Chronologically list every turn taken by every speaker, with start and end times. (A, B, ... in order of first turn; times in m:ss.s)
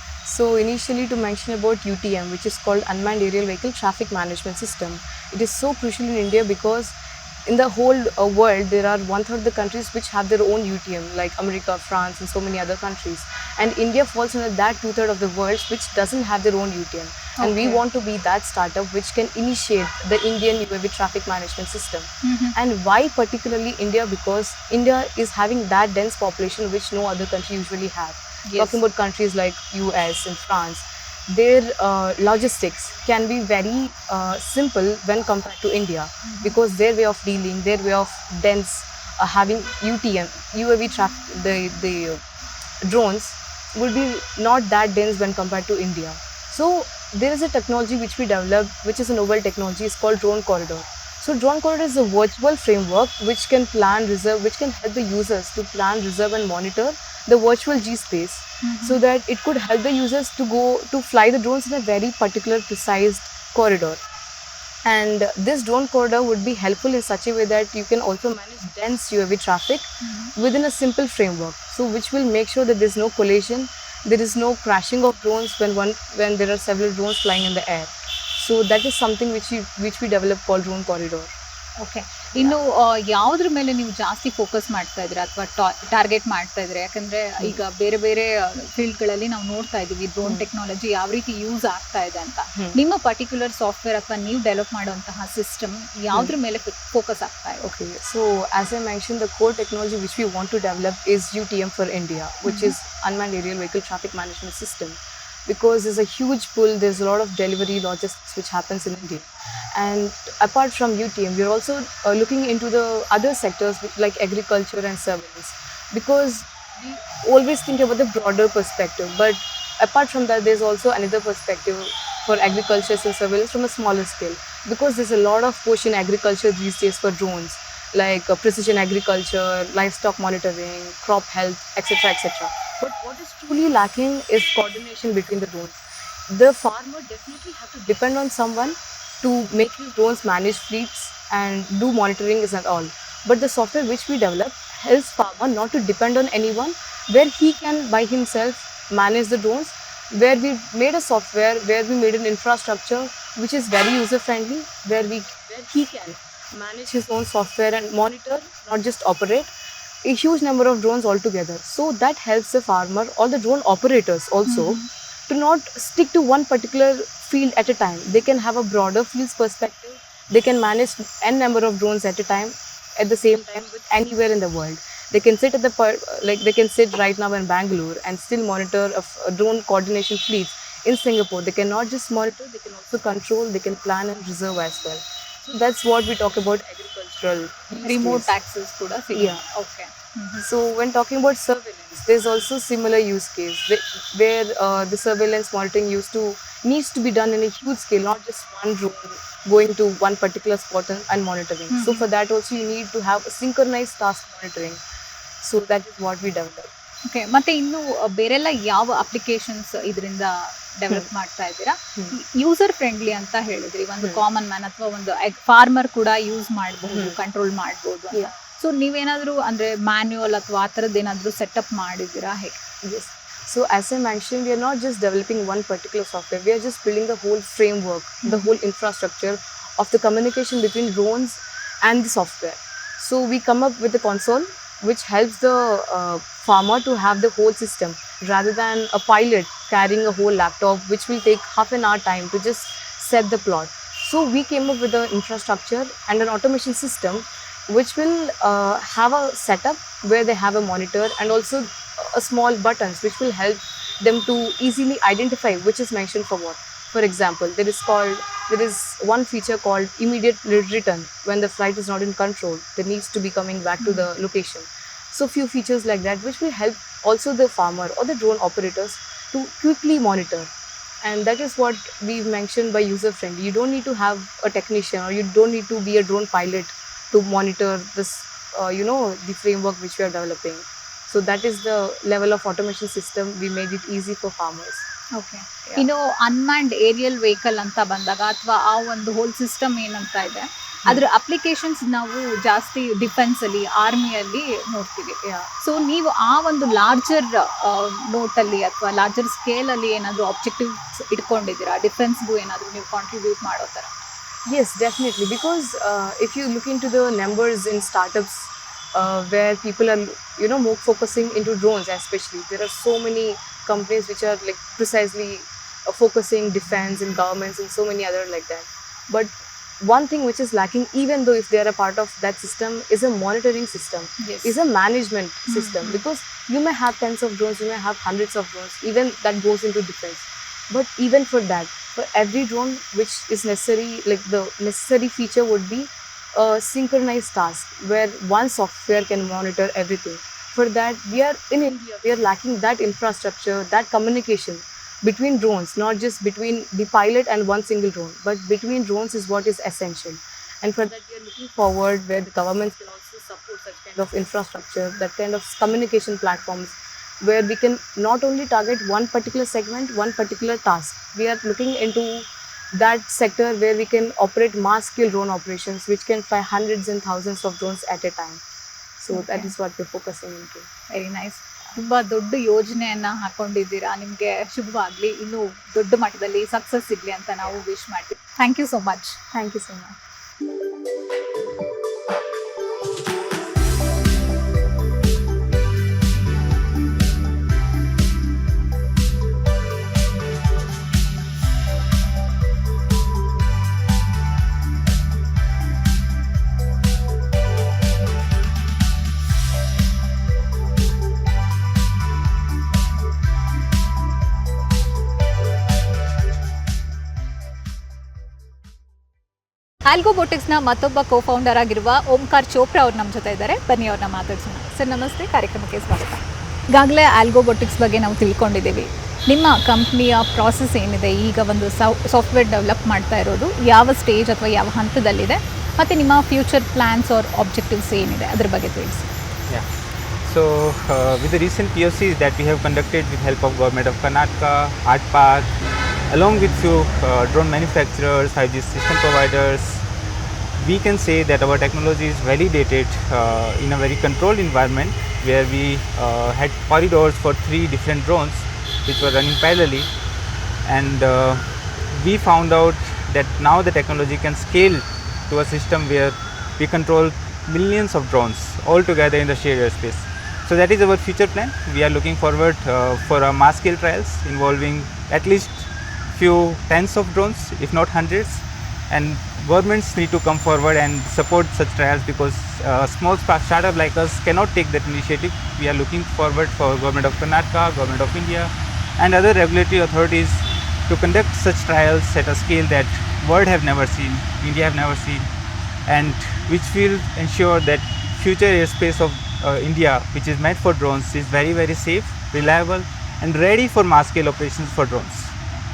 0:00.2-0:42.2 A
0:17.4-0:17.8 B
0:22.2-0:22.5 B
0:28.5-0:28.8 B
0:36.2-0:36.6 B
0:42.8-1:04.0 A
0:58.6-0:59.0 B
1:04.8-1:21.3 A
1:10.0-1:10.3 B
1:21.8-1:37.6 B
1:37.6-2:15.8 A
1:42.5-1:42.7 B
2:16.3-2:39.5 A
2:40.0-3:08.3 A
2:44.5-2:44.8 B
3:07.8-3:10.4 B
3:09.1-3:09.4 A
3:10.4-3:24.8 A
3:21.7-3:22.0 B
3:25.4-3:26.7 A
3:27.0-3:42.6 B
3:42.8-4:30.5 A
4:31.0-4:44.9 A
4:45.1-5:03.9 B
5:04.4-6:08.4 A
5:24.2-5:24.5 B
5:25.5-5:26.0 B
6:09.0-6:10.7 A
6:09.1-6:09.5 B
6:10.9-6:19.2 B
6:19.3-6:20.0 A
6:49.8-7:09.1 B
7:10.2-7:15.5 C
7:16.1-7:19.8 C
7:20.6-7:29.9 C
7:30.6-8:05.3 C
8:05.9-8:15.3 C